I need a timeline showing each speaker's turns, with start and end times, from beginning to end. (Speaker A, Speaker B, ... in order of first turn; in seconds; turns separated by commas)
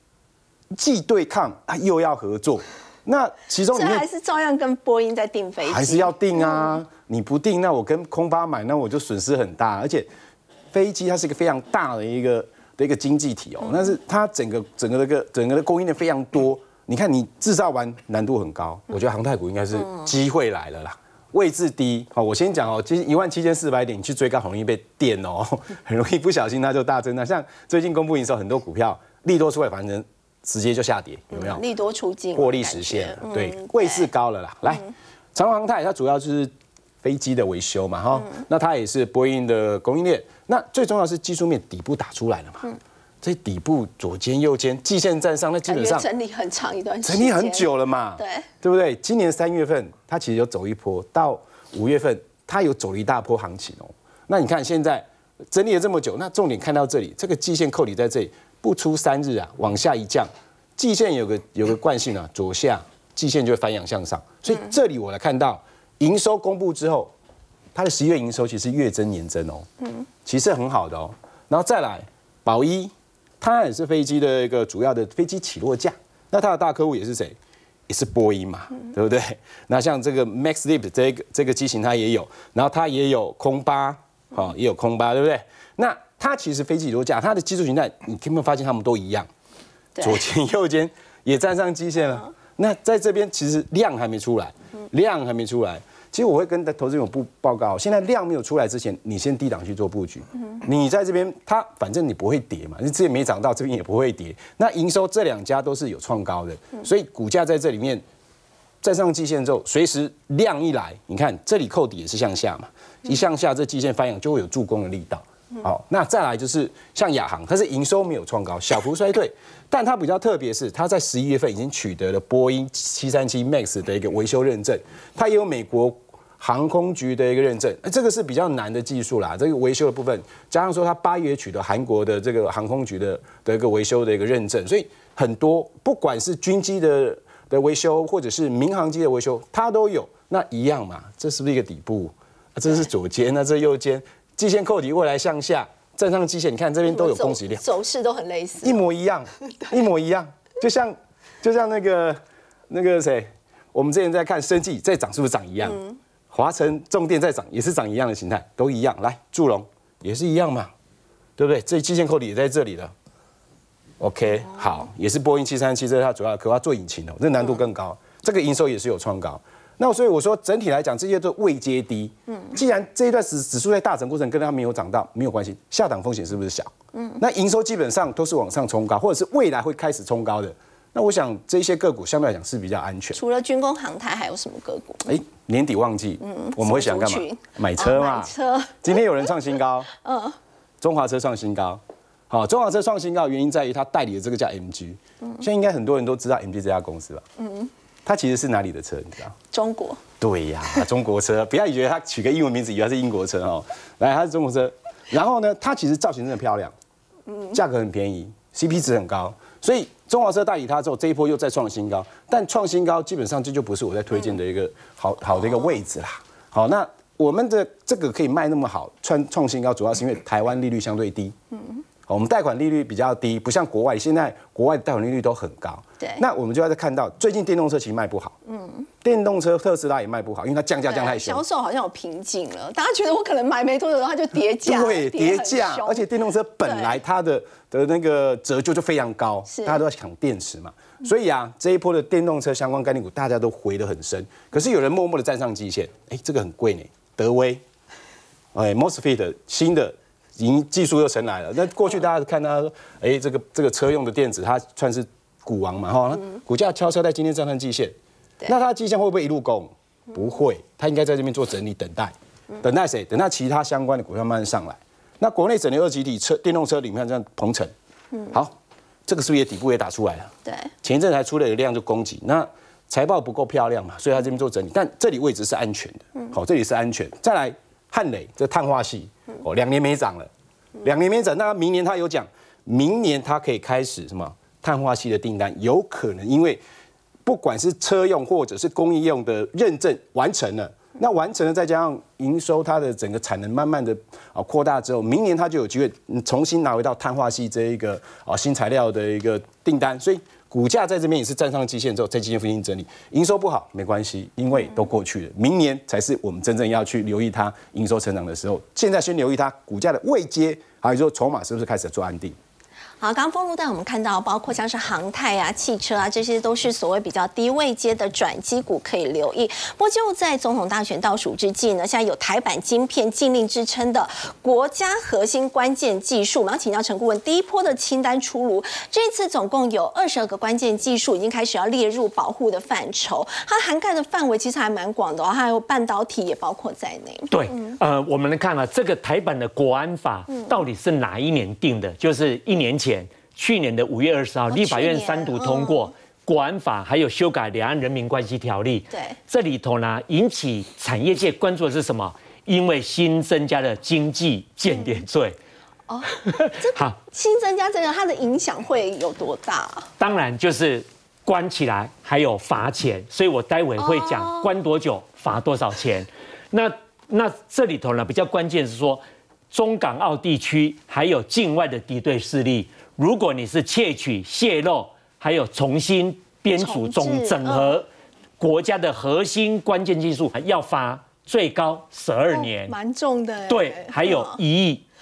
Speaker A: 0.7-4.1, Speaker B: 3.7-6.6, Speaker A: 5.7-10.1, Speaker A: 10.7-31.6, Speaker B: 31.3-34.1, Speaker A: 32.4-42.6, Speaker A: 43.2-46.1, Speaker B: 45.7-48.5, Speaker A: 47.0-67.1, Speaker A: 67.7-69.7, Speaker A: 70.2-77.3, Speaker A: 77.9-89.3, Speaker B: 90.0-90.2, Speaker A: 90.0-108.0, Speaker A: 108.8-147.6, Speaker B: 146.9-148.8, Speaker A: 148.6-160.7, Speaker B: 155.6-156.0, Speaker A: 161.4-162.9, Speaker A: 164.0-183.2, Speaker B: 176.9-177.2, Speaker B: 183.1-185.1, Speaker A: 185.1-189.9, Speaker B: 186.2-189.0, Speaker B: 189.9-190.4, Speaker A: 190.8-197.2, Speaker B: 197.4-197.7, Speaker A: 198.1-199.3, Speaker B: 199.5-200.0, Speaker A: 200.2-206.7, Speaker B: 207.3-207.6, Speaker A: 207.5-221.3, Speaker B: 221.5-221.8, Speaker A: 222.1-228.4, Speaker B: 228.5-228.9, Speaker A: 229.0-231.4, Speaker B: 230.9-236.1, Speaker A: 234.7-247.6, Speaker B: 236.6-237.0, Speaker B: 239.5-239.8, Speaker A: 248.5-257.9, Speaker A: 258.5-267.7, Speaker A: 269.1-280.3, Speaker B: 270.5-270.7, Speaker A: 280.8-286.6, Speaker A: 287.2-312.4, Speaker B: 313.0-337.8, Speaker C: 337.3-355.4, Speaker B: 344.5-345.9, Speaker B: 348.9-349.2, Speaker B: 355.9-359.9, Speaker C: 356.2-357.0, Speaker C: 360.0-377.9, Speaker B: 363.8-364.5, Speaker B: 376.6-377.8, Speaker C: 378.4-382.8, Speaker B: 382.3-384.4, Speaker C: 383.5-384.9